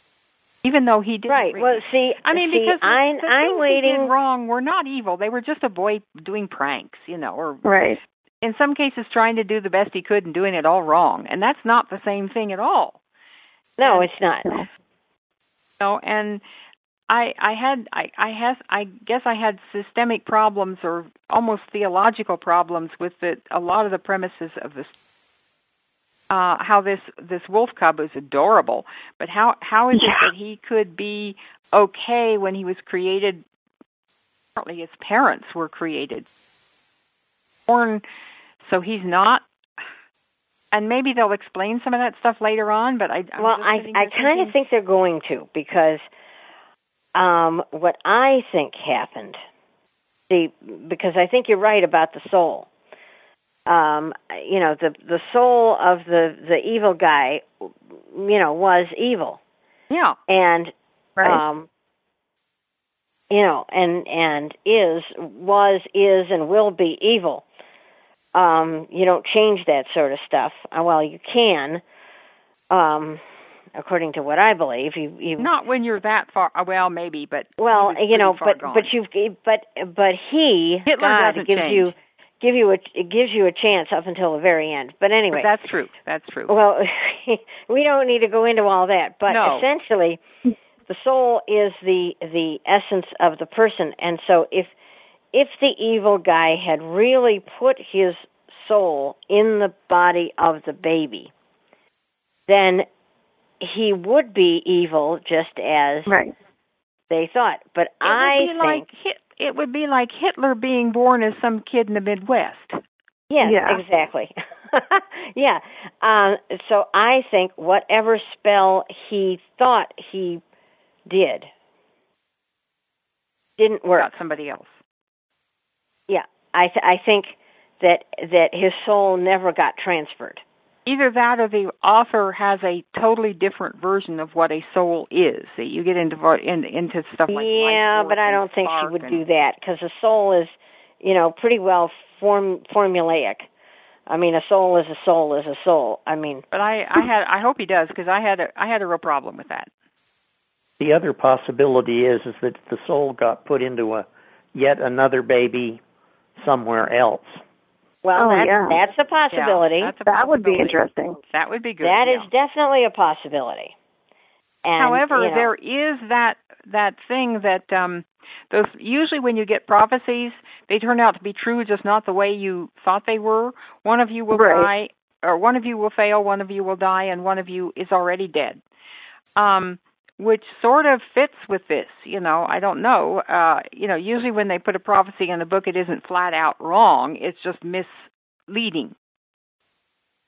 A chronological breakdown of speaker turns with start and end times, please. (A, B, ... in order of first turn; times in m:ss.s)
0:00.6-0:07.8 A
0:01.3-0:04.1 B
0:07.6-0:08.0 C
0:08.4-0:13.0 A
0:13.8-0:14.6 B
0:13.9-0:14.7 C
0:15.8-0:16.4 A
0:17.1-0:24.9 A
0:26.3-0:33.4 A
0:30.0-0:30.3 C
0:34.6-0:36.2 A
0:37.7-0:38.0 A
0:38.6-0:39.4 A
0:40.7-0:44.5 A
0:43.4-0:46.0 B
0:47.1-0:49.4 B
0:50.3-0:52.7 B
0:53.7-0:59.4 B
0:59.9-1:00.2 A
1:00.3-1:01.7 B
1:01.2-1:01.4 C
1:03.3-1:07.4 B
1:08.3-1:11.8 B
1:12.7-1:13.2 B
1:13.7-1:15.5 B
1:15.4-1:18.9 A
1:17.6-1:25.5 B
1:20.9-1:21.9 A
1:25.3-1:26.5 A
1:26.5-1:30.2 B
1:29.3-1:29.6 A
1:30.9-1:34.7 B
1:35.3-1:41.3 B
1:42.5-1:42.8 B
1:43.6-1:46.1 B
1:46.1-1:46.3 C
1:47.1-1:48.9 B
1:48.0-1:52.8 A
1:53.3-2:00.4 B
1:53.4-1:53.8 C
2:01.1-2:01.5 B
2:03.6-2:04.1 B
2:04.0-2:04.8 A
2:06.1-2:10.4 B
2:10.8-2:19.2 A
2:17.3-2:23.5 B
2:24.1-2:26.4 B
2:26.5-2:29.7 A
2:30.8-2:35.8 D
2:36.4-2:37.4 D
2:38.0-2:39.9 B
2:38.2-2:38.8 C
2:39.3-2:42.3 A
2:40.0-2:41.2 C
2:41.8-2:43.7 B
2:44.6-2:45.5 B
2:44.8-2:58.6 A
2:54.3-2:54.7 C
2:59.4-3:08.9 A